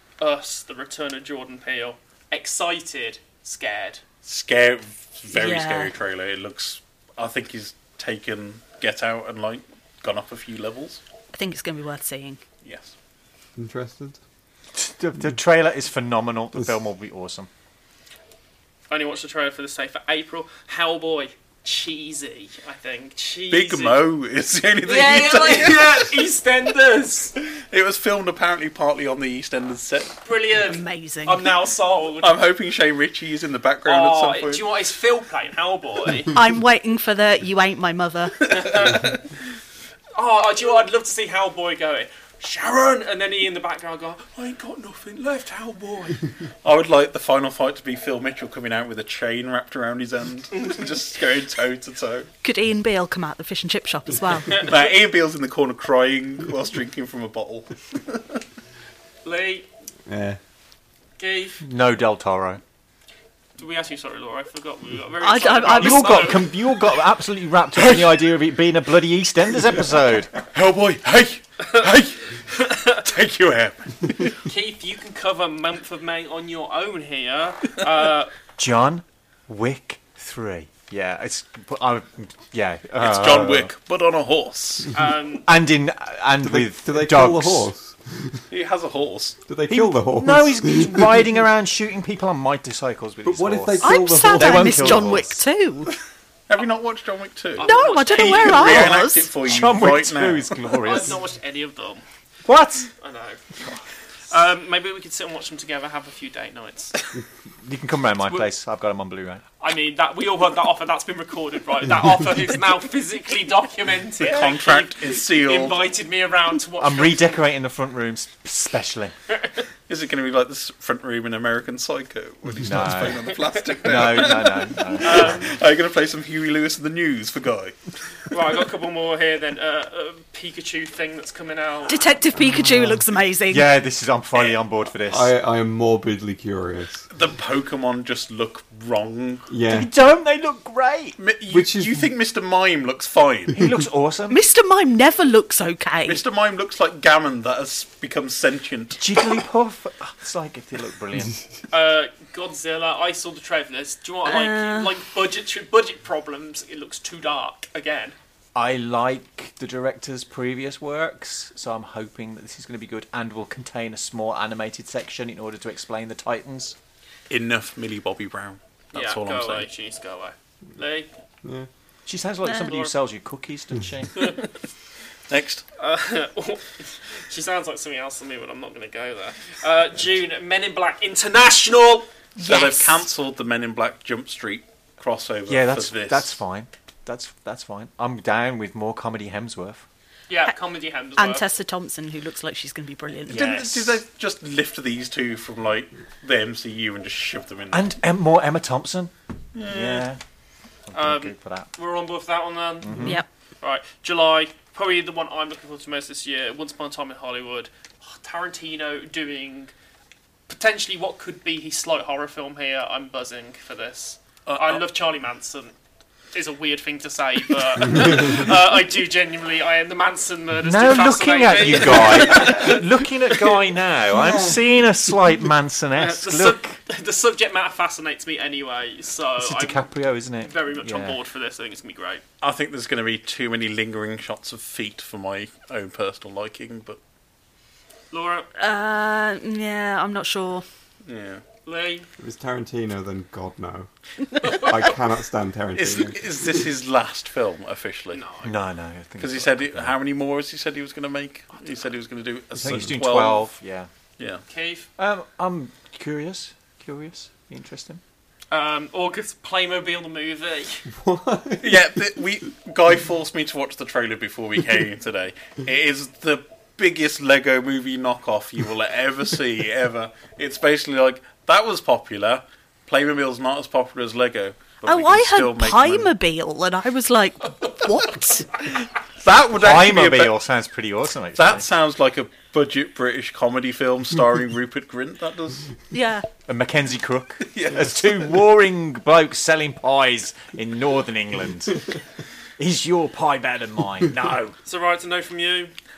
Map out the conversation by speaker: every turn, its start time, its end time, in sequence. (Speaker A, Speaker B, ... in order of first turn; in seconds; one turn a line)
Speaker A: 0.2-4.0
Speaker B: 4.2-11.0
Speaker C: 5.3-5.9
Speaker C: 11.3-12.4
Speaker B: 12.6-12.9
Speaker D: 13.6-14.2
Speaker E: 14.8-17.5
Speaker A: 18.9-24.1
Speaker B: 23.5-26.2
Speaker A: 24.8-27.3
Speaker B: 27.5-30.2
Speaker A: 30.2-32.4
Speaker C: 30.6-31.5
Speaker B: 32.2-34.7
Speaker A: 33.9-36.4
Speaker C: 36.3-38.5
Speaker A: 38.5-39.2
Speaker B: 38.9-39.2
Speaker A: 40.1-46.2
Speaker B: 46.6-52.3
Speaker C: 52.4-54.7
Speaker A: 54.5-54.8
Speaker B: 54.6-58.2
Speaker A: 59.2-59.7
Speaker D: 60.1-60.4
Speaker A: 61.2-61.6
Speaker E: 61.6-62.6
Speaker A: 63.6-66.6
Speaker C: 65.2-66.2
Speaker E: 65.8-70.3
Speaker B: 70.5-74.3
Speaker A: 72.6-73.0
Speaker A: 74.4-78.3
Speaker E: 78.6-83.7
Speaker B: 83.0-84.9
Speaker A: 84.9-85.5
Speaker E: 85.5-87.7
Speaker D: 86.4-88.4
Speaker B: 88.5-89.4
Speaker D: 89.5-91.2
Speaker E: 89.7-95.4
Speaker D: 93.2-95.2
Speaker C: 93.8-95.9
Speaker B: 96.5-100.6
Speaker A: 97.6-99.0
Speaker C: 97.6-99.3
Speaker E: 99.4-101.2
Speaker A: 100.8-102.0
Speaker E: 102.5-102.9
Speaker A: 103.0-103.4
Speaker A: 104.3-107.2
Speaker E: 107.6-109.4
Speaker A: 109.6-117.2
Speaker B: 114.2-115.8
Speaker E: 116.8-119.2
Speaker A: 119.3-119.6
Speaker B: 119.9-127.8
Speaker E: 122.6-125.5
Speaker A: 125.0-125.5
Speaker A: 128.3-132.1
Speaker C: 131.9-133.7
Speaker D: 132.4-133.0
Speaker E: 133.5-135.3
Speaker B: 134.3-134.6
Speaker D: 135.1-137.1
Speaker B: 137.1-139.5
Speaker D: 139.5-139.9
Speaker E: 139.7-141.2
Speaker B: 141.2-143.6
Speaker D: 141.5-142.1
Speaker E: 143.5-144.4
Speaker C: 144.3-146.2
Speaker B: 146.1-149.0
Speaker E: 149.0-151.4
Speaker A: 151.7-158.2
Speaker C: 154.2-154.9
Speaker E: 158.6-166.8
Speaker B: 167.3-169.7
Speaker A: 168.9-171.1
Speaker E: 172.1-174.4
Speaker A: 174.2-174.5
Speaker B: 175.3-175.7
Speaker A: 175.8-182.8
Speaker B: 182.4-186.4
Speaker E: 185.5-189.8
Speaker A: 190.3-191.5
Speaker C: 191.2-193.5
Speaker A: 193.3-193.8
Speaker B: 193.3-197.9
Speaker E: 197.7-200.2
Speaker B: 199.6-200.1
Speaker E: 200.9-201.7
Speaker A: 200.9-209.7
Speaker E: 202.8-203.2
Speaker A: 210.5-215.7
Speaker B: 214.5-214.8
Speaker A: 216.3-222.8
Speaker E: 220.6-226.8
Speaker A: 226.0-229.8
Speaker E: 229.4-231.2
Speaker A: 230.4-232.2
Speaker B: 232.4-237.0
Speaker A: 238.1-238.5
Speaker C: 238.6-240.7
Speaker B: 241.1-241.4
Speaker A: 241.7-242.1
Speaker D: 242.2-246.7
Speaker B: 245.8-248.2
Speaker A: 248.1-248.5
Speaker E: 248.4-249.9
Speaker B: 249.2-253.6
Speaker E: 252.6-253.9
Speaker B: 254.2-254.4
Speaker A: 254.5-254.9
Speaker E: 255.0-258.0
Speaker A: 258.5-260.9
Speaker D: 260.9-262.0
Speaker B: 261.6-276.1
Speaker C: 274.9-278.5
Speaker B: 279.2-280.4
Speaker E: 279.6-281.7
Speaker B: 281.4-285.7
Speaker C: 285.9-286.3
Speaker E: 286.5-291.9
Speaker B: 287.5-288.3
Speaker E: 292.6-294.4
Speaker B: 294.3-294.5
Speaker A: 294.7-295.7